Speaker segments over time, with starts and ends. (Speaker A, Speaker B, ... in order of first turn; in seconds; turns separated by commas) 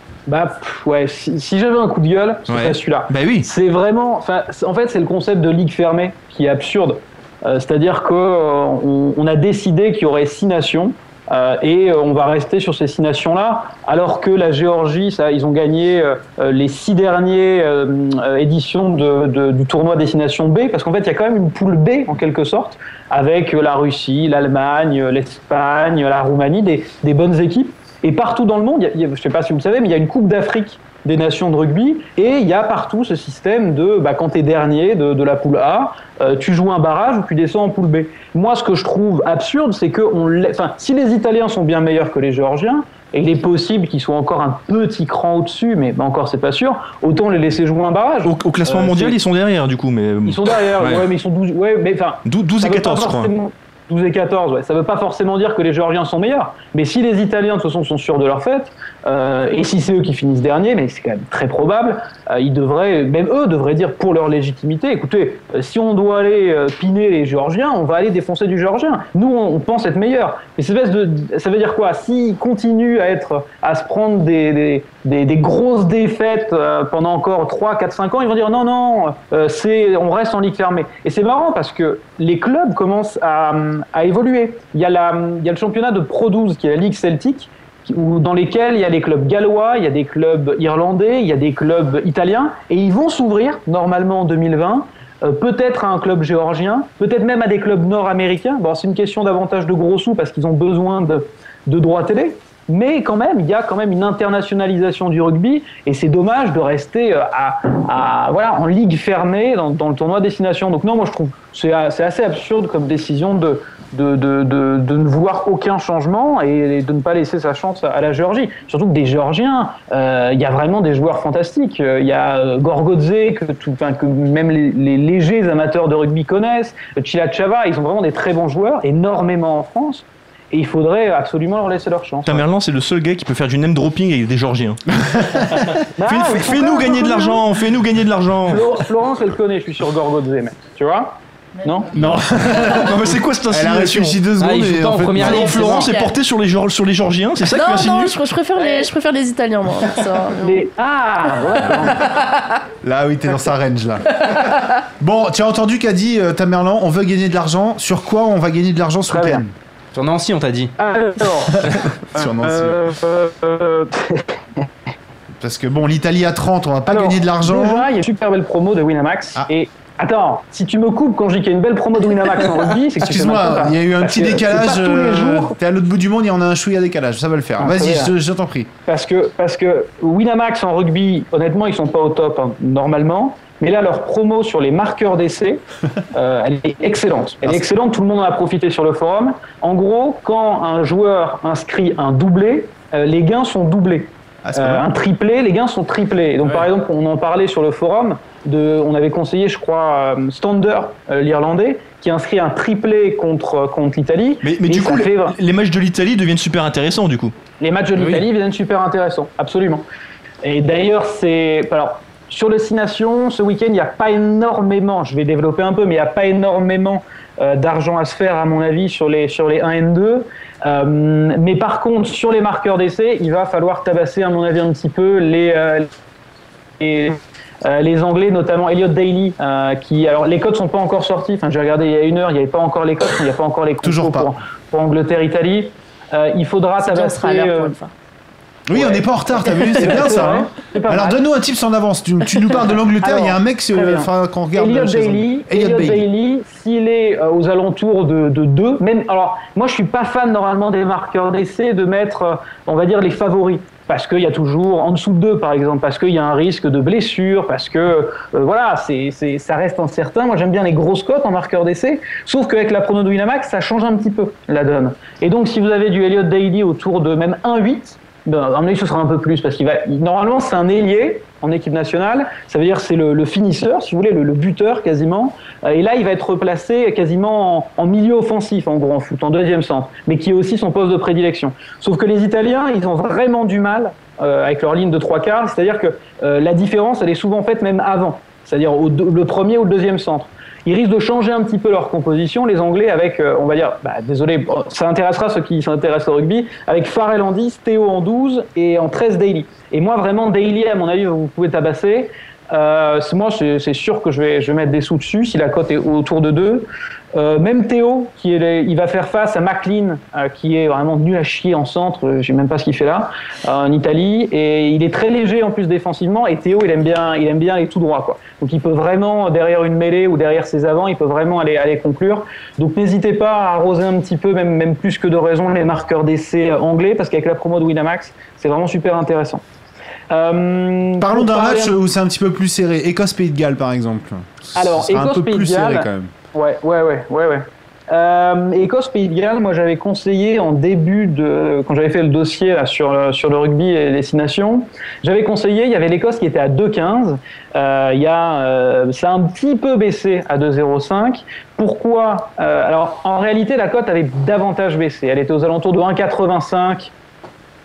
Speaker A: 0.3-49.2, Speaker B: 2.5-3.5, Speaker B: 48.2-51.1, Speaker A: 50.2-132.4, Speaker B: 52.2-53.3, Speaker B: 132.2-138.7, Speaker A: 136.0-137.4, Speaker A: 138.5-142.0, Speaker C: 141.9-145.8, Speaker B: 142.5-144.2, Speaker D: 144.4-145.9, Speaker B: 145.2-148.2, Speaker E: 145.8-146.1, Speaker E: 147.5-150.7, Speaker A: 148.6-148.9, Speaker A: 150.4-152.2, Speaker C: 152.8-159.5, Speaker A: 159.1-159.4, Speaker D: 159.9-160.7, Speaker A: 160.8-164.6, Speaker C: 161.5-162.8, Speaker C: 165.4-167.9, Speaker A: 166.9-175.6, Speaker C: 173.0-178.7, Speaker A: 177.6-178.1, Speaker A: 178.8-185.6, Speaker A: 186.1-205.4, Speaker C: 194.4-194.8, Speaker B: 204.4-207.3, Speaker A: 207.6-209.8, Speaker A: 210.4-225.9, Speaker A: 226.8-237.8, Speaker C: 233.8-234.3, Speaker E: 236.8-237.9, Speaker C: 238.7-246.1, Speaker A: 238.7-241.2, Speaker A: 243.0-329.4, Speaker A: 330.1-331.8, Speaker C: 331.0-336.1, Speaker A: 334.5-356.9